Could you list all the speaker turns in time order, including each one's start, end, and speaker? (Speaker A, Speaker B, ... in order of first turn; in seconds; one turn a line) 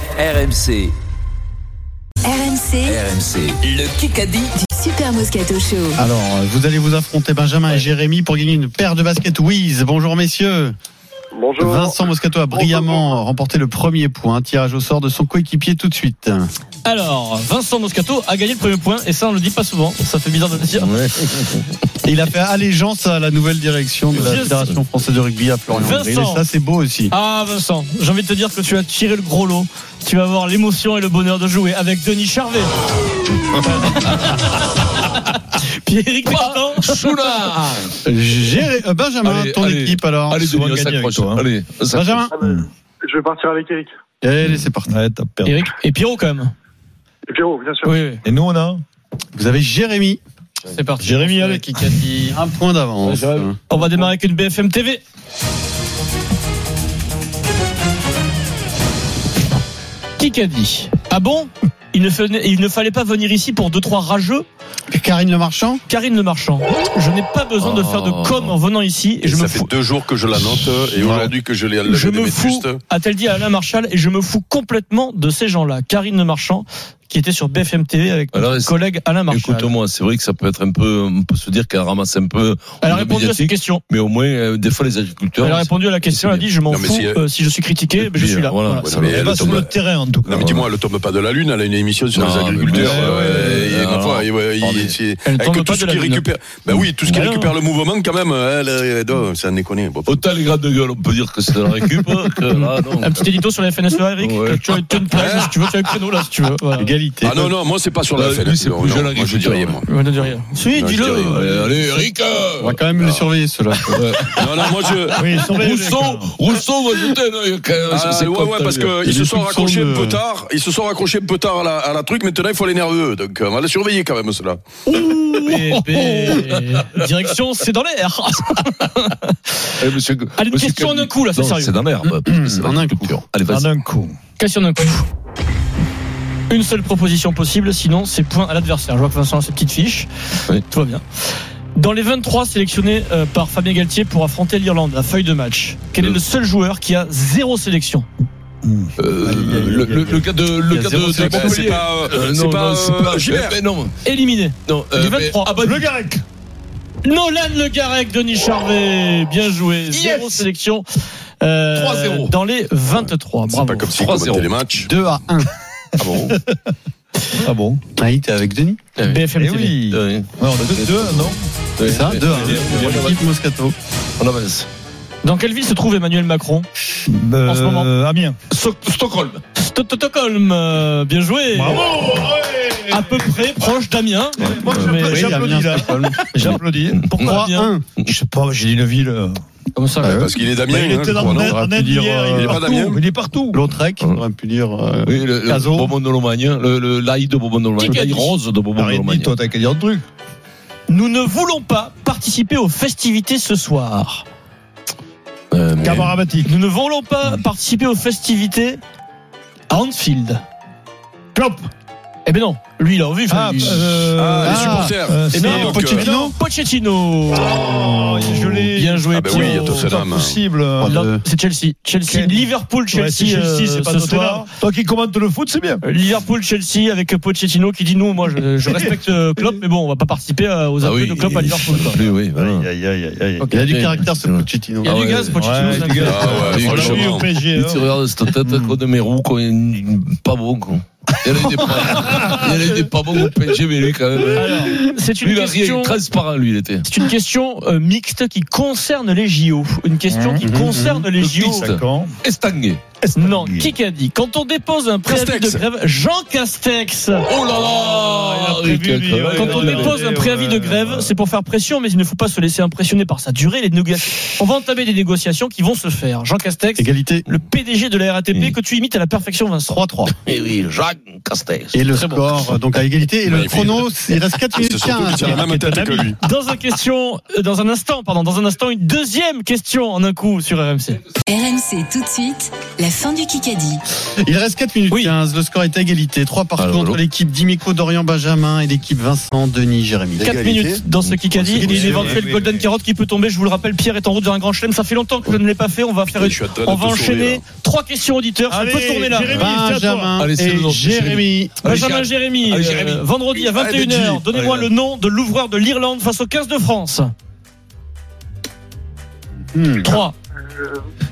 Speaker A: 0.2-0.9
Speaker B: 2.2-3.0
Speaker A: 2.9-4.5
Speaker B: 4.6-6.0
Speaker C: 5.9-10.7
Speaker D: 11.4-11.9
Speaker C: 11.6-16.5
Speaker D: 12.5-13.0
Speaker E: 16.8-20.9
Speaker F: 20.8-21.7
Speaker C: 22.0-27.1
Speaker F: 24.1-24.8
Speaker E: 24.1-24.6
Speaker E: 25.7-26.4
Speaker E: 27.1-32.7
Speaker E: 33.6-34.7
Speaker E: 35.5-37.1
Speaker F: 36.2-38.0
Speaker C: 38.0-40.5
Speaker F: 39.2-42.3
Speaker G: 40.4-41.5
Speaker C: 41.9-42.3
Speaker G: 42.4-42.7
Speaker D: 43.1-43.9
Speaker C: 44.2-44.9
Speaker G: 44.9-45.7
Speaker E: 45.4-46.5
Speaker D: 47.3-47.9
Speaker E: 47.8-48.2
Speaker G: 48.2-48.8
Speaker C: 49.3-50.2
Speaker E: 50.6-52.3
Speaker G: 51.0-51.7
Speaker C: 52.1-53.6
Speaker F: 53.0-54.0
Speaker E: 53.7-55.0
Speaker E: 60.2-64.4
Speaker C: 64.9-65.8
Speaker E: 65.9-69.7
Speaker F: 67.6-68.5
Speaker H: 69.2-72.8
Speaker C: 71.0-71.3
Speaker E: 71.8-79.7
Speaker F: 78.3-78.7
Speaker F: 79.2-86.5
Speaker E: 82.8-83.8
Speaker E: 85.4-88.9
Speaker H: 86.7-87.2
Speaker F: 88.0-89.5
Speaker H: 88.8-100.2
Speaker G: 89.0-90.5
Speaker F: 90.4-90.7
Speaker F: 92.1-95.0
Speaker G: 92.7-93.7
Speaker E: 95.2-96.2
Speaker F: 96.7-97.2
Speaker E: 97.0-97.5
Speaker F: 100.0-103.3
Speaker E: 102.5-106.9
Speaker F: 104.2-105.3
Speaker H: 105.1-105.5
Speaker C: 106.8-107.5
Speaker H: 107.2-109.8
Speaker F: 108.1-109.8
Speaker E: 109.8-111.9
Speaker H: 110.7-111.4
Speaker F: 111.3-112.8
Speaker C: 112.6-114.2
Speaker H: 113.0-113.3
Speaker F: 113.8-118.9
Speaker H: 114.3-115.5
Speaker G: 115.1-116.3
Speaker H: 117.9-124.6
Speaker C: 119.0-120.2
Speaker E: 124.9-129.5
Speaker F: 125.4-126.8
Speaker F: 129.8-133.7
Speaker E: 130.4-131.7
Speaker C: 132.2-133.2
Speaker G: 133.5-134.2
Speaker E: 134.4-135.1
Speaker E: 136.5-140.1
Speaker E: 140.6-141.0
Speaker E: 141.7-148.1
Speaker G: 148.6-150.3
Speaker F: 149.0-153.9
Speaker C: 150.7-151.7
Speaker H: 151.1-153.6
Speaker E: 154.0-155.7
Speaker F: 154.7-155.9
Speaker G: 155.6-156.2
Speaker E: 157.0-160.8
Speaker F: 159.9-160.4
Speaker E: 161.4-164.0
Speaker F: 161.7-162.3
Speaker H: 162.9-164.9
Speaker F: 163.9-164.6
Speaker C: 164.8-165.5
Speaker F: 166.0-166.4
Speaker G: 166.3-166.7
Speaker G: 167.4-167.8
Speaker C: 167.9-168.8
Speaker F: 168.9-169.2
Speaker E: 169.0-169.8
Speaker G: 169.4-171.4
Speaker F: 169.8-173.3
Speaker C: 171.8-173.7
Speaker G: 172.2-172.9
Speaker F: 174.2-174.7
Speaker E: 175.2-176.7
Speaker G: 177.1-178.4
Speaker E: 177.4-177.9
Speaker F: 178.5-179.4
Speaker E: 179.5-181.9
Speaker G: 181.5-183.4
Speaker E: 182.9-185.6
Speaker G: 184.4-187.1
Speaker C: 184.7-186.6
Speaker E: 187.0-187.7
Speaker C: 187.2-187.8
Speaker G: 188.0-189.4
Speaker E: 189.7-190.3
Speaker H: 190.0-191.7
Speaker G: 190.7-193.6
Speaker C: 191.4-192.2
Speaker H: 192.2-193.0
Speaker C: 193.5-195.9
Speaker F: 195.1-199.3
Speaker E: 197.8-198.3
Speaker G: 198.8-200.0
Speaker E: 200.9-204.2
Speaker F: 205.5-206.2
Speaker G: 205.8-206.5
Speaker E: 206.4-208.8
Speaker E: 209.7-210.4
Speaker E: 211.3-211.6
Speaker E: 212.2-214.1
Speaker G: 213.3-216.0
Speaker H: 214.1-216.1
Speaker C: 214.4-214.9
Speaker E: 215.3-217.8
Speaker C: 215.9-216.3
Speaker G: 217.3-220.9
Speaker E: 218.7-219.9
Speaker H: 219.1-220.4
Speaker C: 220.8-221.2
Speaker E: 220.8-224.5
Speaker G: 222.1-225.8
Speaker E: 225.8-232.1
Speaker G: 228.7-228.9
Speaker F: 230.8-232.7
Speaker G: 232.3-233.6
Speaker C: 233.5-235.0
Speaker F: 233.6-246.8
Speaker E: 234.8-237.0
Speaker G: 235.3-238.7
Speaker H: 236.0-237.3
Speaker G: 242.0-242.4
Speaker E: 244.3-246.0
Speaker E: 246.8-251.7
Speaker G: 250.1-250.4
Speaker C: 250.4-251.1
Speaker F: 251.2-252.8
Speaker G: 251.6-252.1
Speaker G: 253.0-253.7
Speaker E: 253.1-257.3
Speaker H: 255.1-255.6
Speaker F: 257.3-260.0
Speaker G: 258.2-261.1
Speaker E: 259.3-269.8
Speaker C: 266.8-267.2
Speaker C: 269.7-270.1
Speaker F: 270.2-271.8
Speaker C: 271.7-275.6
Speaker E: 271.9-272.3
Speaker H: 273.2-273.9
Speaker H: 274.6-276.2
Speaker G: 275.3-276.0
Speaker E: 275.5-281.0
Speaker B: 281.3-283.8
Speaker C: 284.2-290.3
Speaker F: 286.6-287.0
Speaker H: 290.2-290.8
Speaker E: 290.2-299.4
Speaker F: 291.1-291.4
Speaker H: 291.5-291.9
Speaker G: 291.6-292.6
Speaker C: 291.6-292.2
Speaker H: 296.1-297.4
Speaker G: 298.5-300.1
Speaker C: 299.3-301.6
Speaker F: 300.2-304.1
Speaker E: 301.6-307.1
Speaker G: 304.2-304.7
Speaker C: 309.5-310.0
Speaker E: 309.8-310.1